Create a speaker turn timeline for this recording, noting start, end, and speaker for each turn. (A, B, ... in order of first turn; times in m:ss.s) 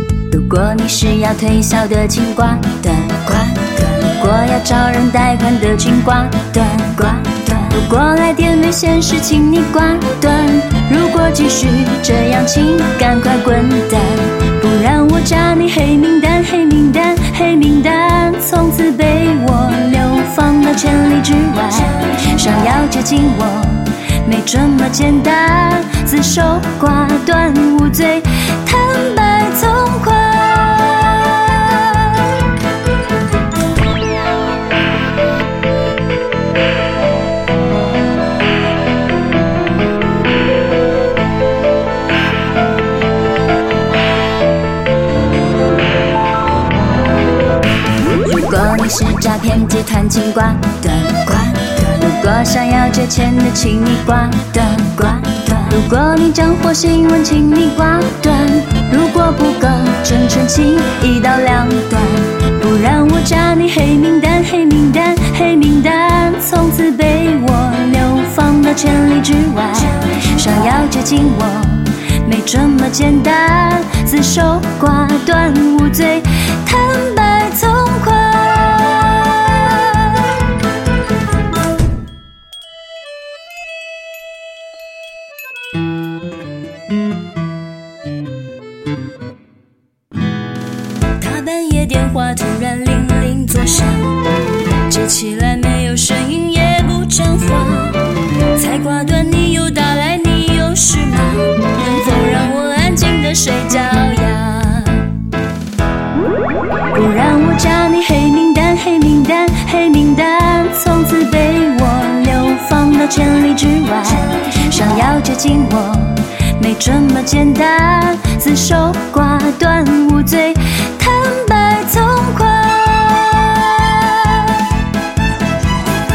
0:00.3-0:32.3 A
0:48.1-1:20.2 A
1:31.2-1:34.2 A
1:34.8-1:45.1 A
1:46.9-2:04.5 A